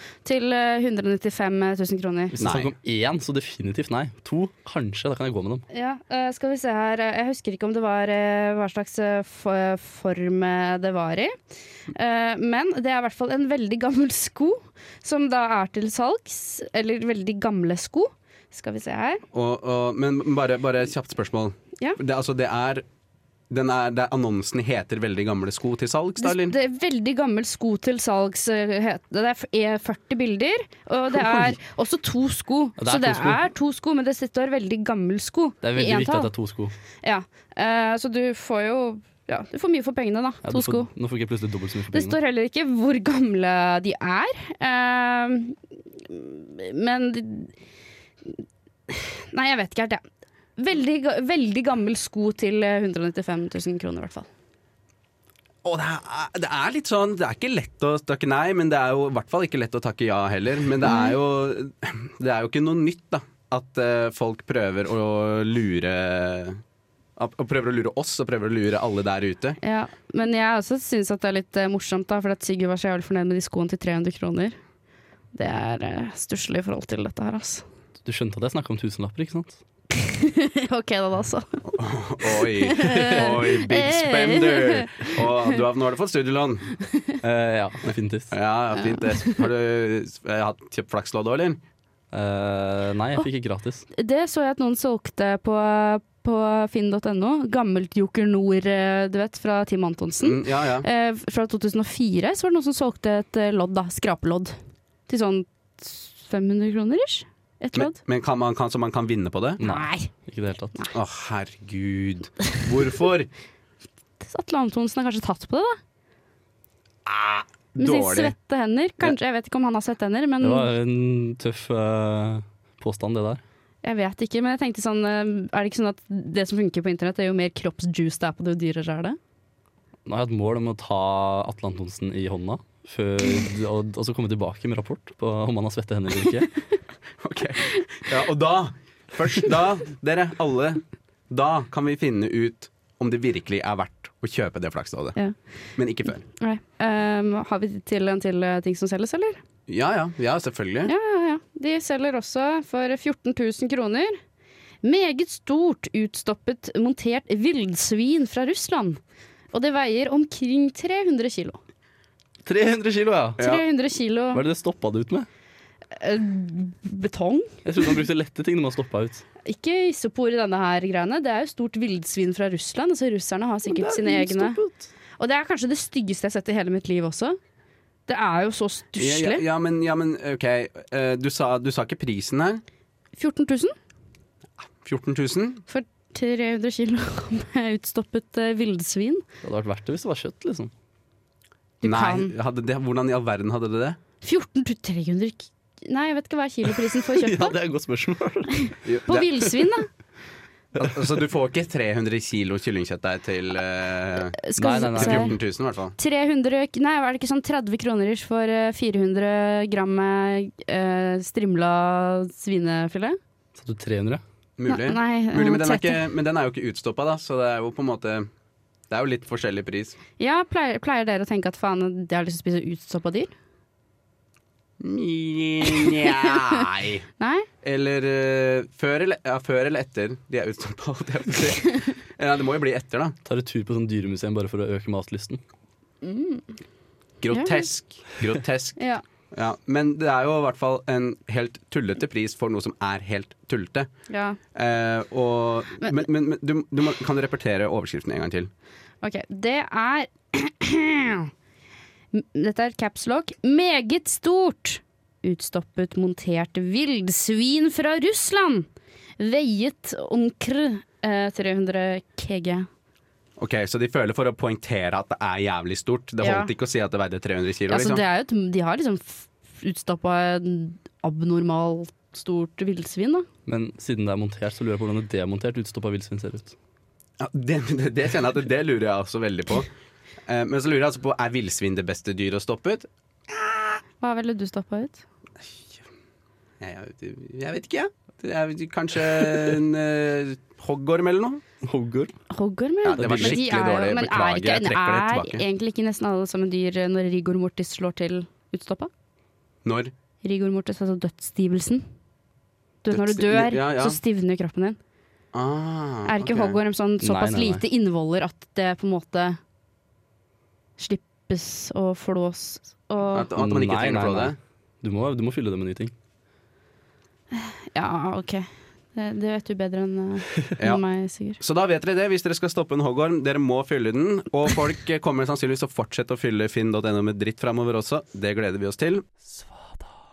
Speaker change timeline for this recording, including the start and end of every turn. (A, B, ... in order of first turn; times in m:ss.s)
0:00.2-0:02.4 A
0:02.3-0:05.6 B
0:02.4-0:02.7 C
0:05.7-0:11.3 A
0:12.0-0:19.2 A
0:19.3-0:22.8 C
0:23.5-0:26.6 C
0:26.2-0:36.3 A
0:31.1-0:31.6 B
0:32.8-0:33.4 B
0:35.6-0:36.7 B
0:37.0-0:40.9 A
0:40.4-0:42.2 B
0:41.9-0:47.5 A
0:48.3-0:50.0 A
0:50.6-0:54.3 A
0:55.6-1:06.6 C
1:00.9-1:01.2 A
1:07.2-1:09.6 C
1:09.6-1:14.6 A
1:15.4-1:17.6 A
1:18.0-1:19.6 B
1:20.0-1:21.6 A
1:21.7-1:26.8 C
1:22.2-1:25.2 A
1:27.2-1:28.3 B
1:28.3-1:31.6 C
1:28.8-1:29.3 A
1:32.1-1:33.8 B
1:34.0-1:44.6 A
1:40.2-1:40.9 C
1:45.1-1:48.0 A
1:47.7-1:49.6 C
1:49.6-1:50.1 A
1:49.6-1:50.8 B
1:50.9-1:53.3 C
1:54.2-1:55.8 A
1:57.1-1:58.3 C
1:57.8-2:00.7 A
2:00.4-2:03.4 B
2:03.8-2:09.2 A
2:10.0-2:16.5 B
2:17.2-2:25.2 C
2:25.8-2:26.2 C
2:26.4-2:29.4 A
2:29.7-2:30.9 C
2:30.9-2:34.2 A
2:34.8-2:39.0 A
2:39.5-2:41.6 A
2:42.4-2:43.5 B
2:43.4-2:44.4 A
2:44.3-2:45.3 B
2:46.0-2:47.5 A
2:47.6-2:49.2 B
2:49.4-2:54.6 A
2:53.7-2:54.9 B
2:55.2-2:57.4 A
2:58.1-2:59.4 A
2:59.0-3:02.6 C
3:03.2-3:03.8 A
3:04.8-3:05.6 C
3:05.7-3:09.2 A
3:09.4-3:10.7 B
3:11.8-3:12.4 A
3:11.8-3:14.0 C
3:14.2-3:17.6 A
3:16.9-3:18.7 B
3:18.7-3:19.9 A
3:18.8-3:19.3 C
3:20.8-3:21.2 B
3:20.8-3:26.0 C
3:24.4-3:25.3 A
3:24.6-3:25.3 B
3:26.0-3:33.2 A
3:33.6-3:34.2 B
3:34.6-3:38.3 C
3:34.7-3:36.0 A
3:38.9-3:40.0 C
3:40.2-3:43.3 A
3:44.8-3:47.0 C
3:47.2-3:47.5 A
3:47.6-3:53.2 C
3:53.2-3:55.4 B
3:56.0-3:56.5 A
3:57.2-3:58.8 C
3:57.3-3:57.7 A
3:58.8-3:59.0 A
3:59.3-4:03.9 C
4:04.1-4:04.4 A
4:04.5-4:08.5 C
4:09.0-4:11.3 A
4:12.1-4:18.7 A
4:19.2-4:22.7 A
4:23.4-4:28.0 C
4:26.2-4:26.5 A
4:27.7-4:33.3 A
4:33.5-4:36.6 B
4:37.2-4:39.7 C
4:40.3-4:43.5 C
4:44.0-4:45.0 A
4:46.6-4:51.4 C
4:51.6-4:52.1 B
4:52.3-4:58.9 A
4:52.8-4:55.4 C
4:52.9-4:53.5 B
4:59.6-4:59.9 C
5:00.2-5:01.8 A
5:02.8-5:04.8 A
5:02.9-5:04.0 C
5:05.3-5:06.6 C
5:06.1-5:09.4 A
5:07.0-5:07.6 B
5:10.8-5:13.3 A
5:13.1-5:14.4 C
5:13.4-5:15.9 B
5:17.3-5:21.4 A
5:21.4-5:29.0 C